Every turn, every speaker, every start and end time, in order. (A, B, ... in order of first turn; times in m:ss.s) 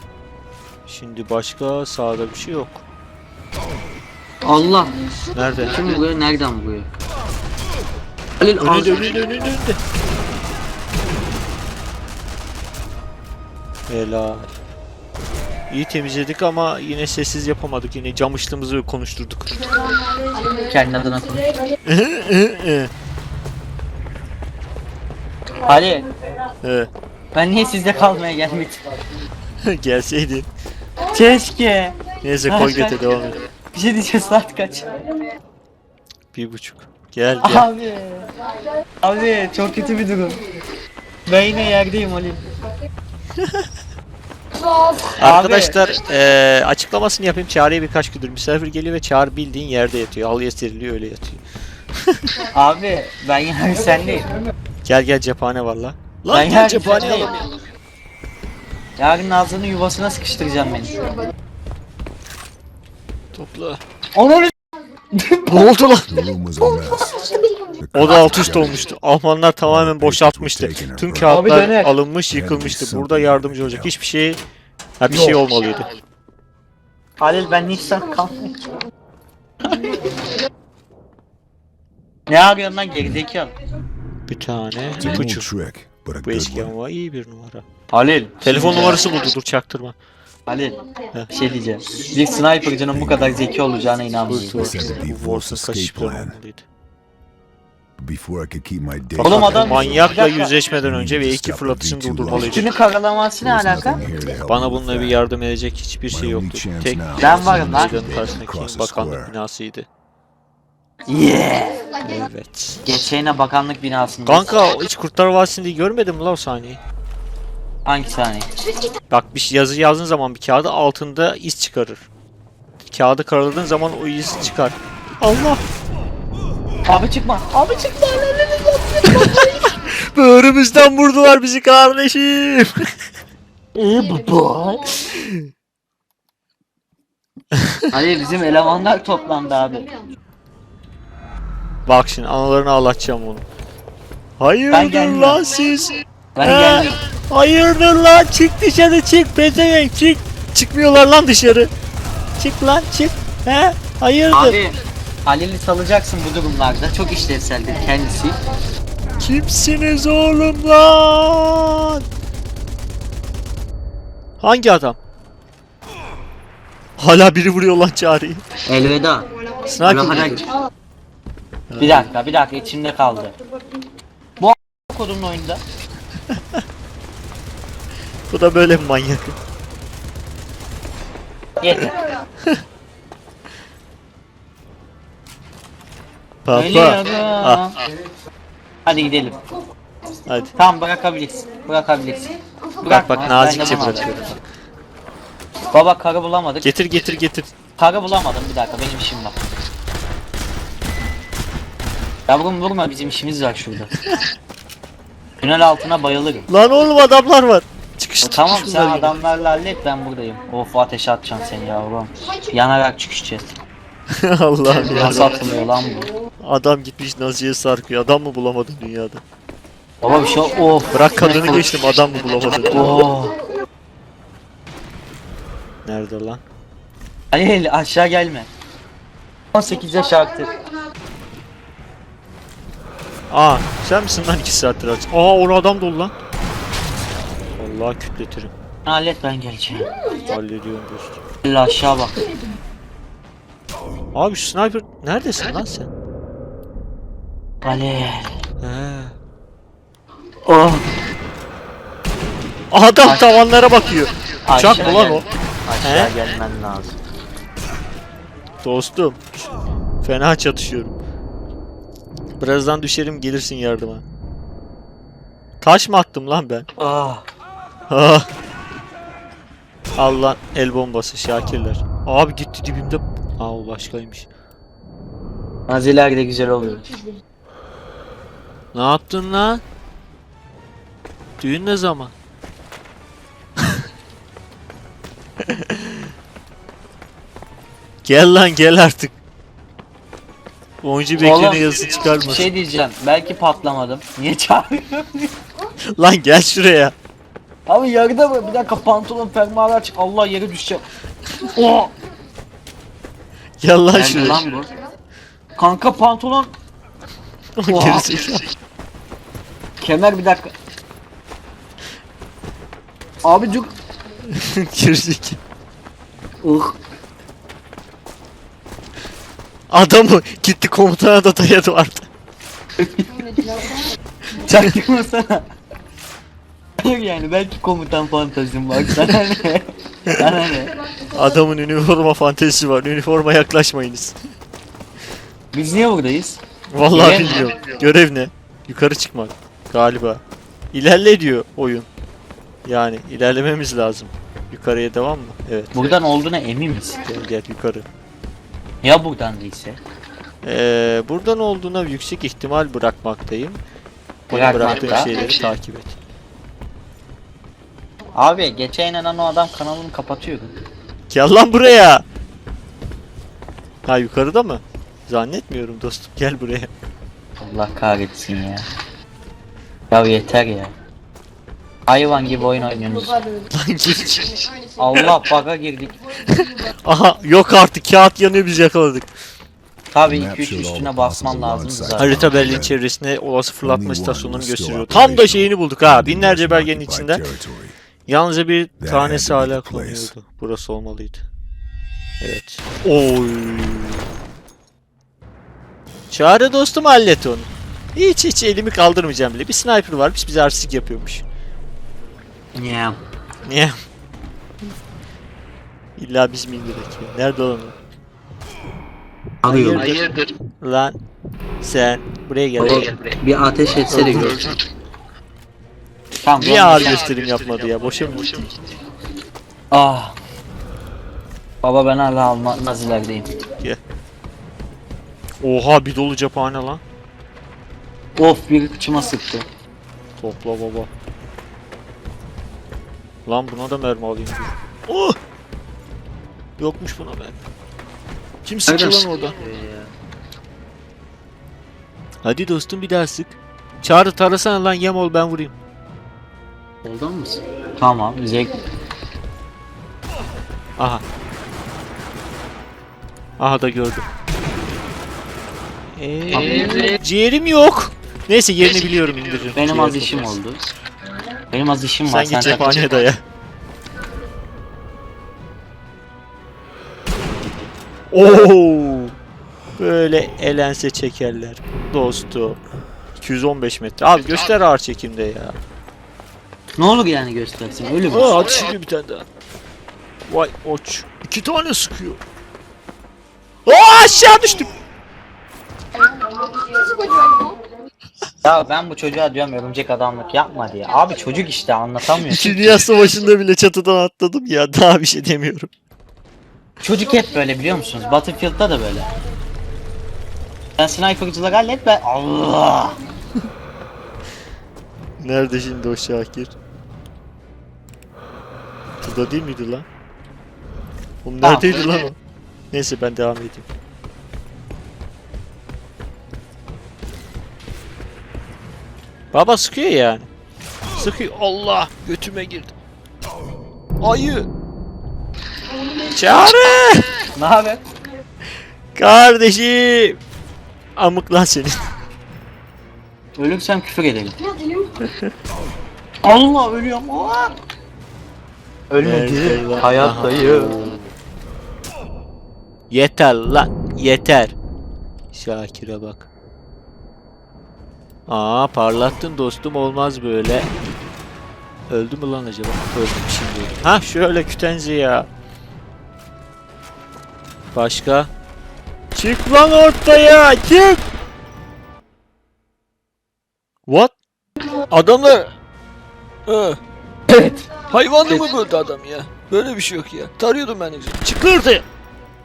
0:00.9-0:02.8 A
0:04.4-0:05.0 B
0:05.3-0:05.8 A
0:05.6-0:06.9 B
0:08.6-0:09.8 A
0:13.9-0:14.5 A
0:15.7-0:19.5 A
0:20.4-0:21.5 B
0:21.8-0:22.9 A
0:25.6-0:26.1 B
0:26.6-0:26.9 A
0:27.3-0:28.8 B
0:29.6-0:30.5 A
0:31.1-0:33.0 B
0:32.2-0:33.4 A
0:33.7-0:34.9 B
0:36.3-0:37.6 A
0:37.4-0:38.3 B
0:39.0-0:40.4 B
0:41.3-0:42.4 B
0:43.4-0:43.7 A
0:45.0-0:45.8 B
0:45.2-0:51.4 A
0:52.0-0:52.3 A
0:52.5-0:54.3 B
0:54.8-0:57.4 A
0:56.3-0:57.3 B
0:59.0-1:01.1 B
1:03.3-1:03.8 A
1:04.1-1:04.5 B
1:05.1-1:05.7 B
1:05.5-1:06.1 A
1:06.1-1:07.1 C
1:07.8-1:08.9 C
1:07.9-1:14.4 A
1:09.6-1:11.4 C
1:11.2-1:11.9 B
1:12.3-1:13.9 C
1:15.0-1:15.9 A
1:15.1-1:15.4 B
1:17.2-1:18.6 B
1:22.3-1:23.5 B
1:24.3-1:25.5 A
1:25.0-1:26.7 C
1:26.2-1:27.6 A
1:27.9-1:29.0 B
1:28.4-1:29.9 A
1:30.5-1:30.8 B
1:31.3-1:34.6 B
1:32.9-1:33.5 C
1:34.3-1:36.6 A
1:34.6-1:36.4 C
1:38.0-1:42.7 C
1:39.2-1:40.5 B
1:39.3-1:42.7 A
1:42.3-1:44.0 B
1:43.4-1:45.2 C
1:44.5-1:49.9 A
1:46.1-1:49.3 C
1:47.2-1:48.1 B
1:51.1-1:51.8 B
1:52.0-1:52.8 A
1:52.8-1:54.6 B
1:54.3-1:56.8 A
1:57.8-1:58.5 B
1:59.1-2:02.0 A
2:02.9-2:05.6 A
2:06.8-2:09.6 B
2:09.1-2:13.0 A
2:13.7-2:15.0 B
2:15.1-2:15.5 A
2:17.5-2:17.9 A
2:17.9-2:19.9 B
2:21.9-2:23.4 A
2:24.4-2:31.7 A
2:24.7-2:25.4 B
2:26.4-2:27.0 B
2:32.4-2:34.6 A
2:34.3-2:38.4 B
2:39.2-2:42.0 A
2:44.4-2:45.0 A
2:47.0-2:48.4 A
2:48.6-2:49.2 B
2:49.7-2:50.4 A
2:49.8-2:50.5 B
2:51.7-2:52.1 A
2:51.8-2:53.3 B
2:54.4-2:55.6 B
2:58.3-2:59.4 A
3:01.6-3:01.9 B
3:06.4-3:07.6 A
3:06.5-3:07.7 B
3:08.8-3:09.4 B
3:10.3-3:10.5 A
3:10.6-3:12.3 B
3:12.8-3:14.1 B
3:12.9-3:14.4 A
3:15.7-3:16.7 B
3:16.6-3:17.5 A
3:17.8-3:19.3 B
3:22.3-3:23.9 B
3:25.4-3:26.5 B
3:26.5-3:29.1 A
3:28.2-3:33.6 B
3:34.2-3:35.4 A
3:34.7-3:36.1 B
3:36.4-3:39.2 A
3:40.0-3:41.7 B
3:40.9-3:43.1 A
3:42.7-3:43.3 B
3:45.8-3:46.4 A
3:47.3-3:48.5 B
3:49.5-3:50.5 B
3:53.3-3:56.1 A
3:57.6-3:58.5 A
3:58.8-3:59.9 B
4:00.3-4:01.2 A
4:01.4-4:02.2 B
4:04.1-4:05.9 A
4:07.6-4:08.3 B
4:08.6-4:09.2 A
4:10.4-4:10.8 B
4:12.7-4:15.2 A
4:14.5-4:17.0 B
4:15.8-4:16.1 A
4:18.6-4:19.5 A
4:20.0-4:21.0 A
4:22.4-4:24.0 A
4:25.6-4:26.7 A
4:26.8-4:27.2 B
4:27.9-4:28.3 A
4:30.0-4:34.3 A
4:35.7-4:36.8 B
4:38.7-4:39.6 A
4:41.4-4:42.1 A
4:45.4-4:46.0 A
4:48.0-4:49.1 A
4:50.8-4:52.5 A
4:51.2-4:55.4 B
4:56.0-4:56.9 A
4:57.7-5:00.8 B
5:01.5-5:01.9 B
5:03.6-5:04.4 A
5:03.9-5:04.7 B
5:05.6-5:06.5 B
5:07.6-5:08.4 A
5:07.7-5:08.1 B
5:09.8-5:10.5 B
5:13.2-5:13.7 B
5:14.3-5:15.4 A
5:16.4-5:16.8 B
5:19.7-5:22.1 A
5:22.8-5:23.3 B
5:24.4-5:25.4 B
5:26.8-5:30.7 B
5:31.1-5:34.2 A
5:35.5-5:36.4 B
5:36.7-5:40.2 A
5:36.9-5:37.5 B
5:40.7-5:41.9 A
5:42.6-5:46.0 A
5:45.7-5:47.0 B
5:47.0-5:47.8 A
5:48.8-5:49.8 B
5:50.4-5:53.6 A
5:54.3-5:56.0 A
5:54.3-5:55.1 B
5:58.2-6:00.5 B
6:01.1-6:02.0 A
6:03.8-6:06.7 A
6:07.4-6:08.6 B
6:09.9-6:10.7 B
6:11.9-6:13.2 B
6:13.5-6:15.2 A
6:14.8-6:16.0 B
6:16.3-6:19.1 A
6:19.9-6:22.3 B
6:20.1-6:22.8 C
6:22.0-6:27.2 A
6:23.6-6:27.8 C
6:28.1-6:31.2 A
6:28.8-6:30.1 C
6:32.2-6:34.0 A
6:36.1-6:41.2 A
6:42.5-6:43.0 B
6:43.4-6:43.8 A
6:46.0-6:47.7 A
6:49.4-6:49.9 B
6:49.4-6:51.0 A
6:51.6-6:52.9 A
6:52.6-6:54.5 B
6:53.9-6:54.6 A
6:56.2-6:57.0 B
6:56.4-6:58.6 A
6:59.7-7:00.2 B
7:01.6-7:03.4 B
7:05.4-7:06.8 A
7:08.2-7:09.5 B
7:10.2-7:10.9 A
7:13.2-7:15.2 A
7:16.6-7:17.4 A
7:18.4-7:19.4 A
7:18.7-7:19.9 B
7:22.2-7:25.5 A
7:26.8-7:28.6 B
7:30.8-7:31.0 A
7:33.4-7:34.0 A
7:36.0-7:40.4 A
7:36.3-7:36.9 B
7:39.5-7:40.6 B
7:41.5-7:42.9 B
7:42.1-7:43.2 A
7:48.1-7:49.2 A
7:49.8-7:52.6 A
7:53.2-7:55.6 A
7:56.8-7:58.4 B
7:58.1-7:59.2 A
8:00.3-8:02.2 A
8:03.6-8:04.7 A
8:08.4-8:12.8 B
8:12.2-8:15.7 A
8:16.8-8:19.1 B
8:20.8-8:23.0 B
8:25.2-8:26.5 A
8:29.0-8:29.8 A
8:31.2-8:32.2 A
8:31.4-8:31.7 B
8:32.7-8:33.7 A
8:39.3-8:40.3 A
8:40.9-8:42.7 A
8:44.0-8:44.5 A
8:46.0-8:47.1 A
8:47.4-8:47.8 B
8:48.9-8:50.2 A
8:51.0-8:51.8 A
8:53.4-8:54.4 B
8:56.2-8:57.5 B
8:58.9-9:00.7 B
8:59.0-9:01.0 A
9:02.9-9:04.5 A
9:05.3-9:06.2 A
9:08.3-9:10.7 A
9:11.9-9:15.3 A
9:17.7-9:18.3 A
9:19.1-9:21.0 A
9:23.9-9:24.1 A
9:24.9-9:25.5 A
9:26.5-9:26.8 A
9:27.3-9:31.8 A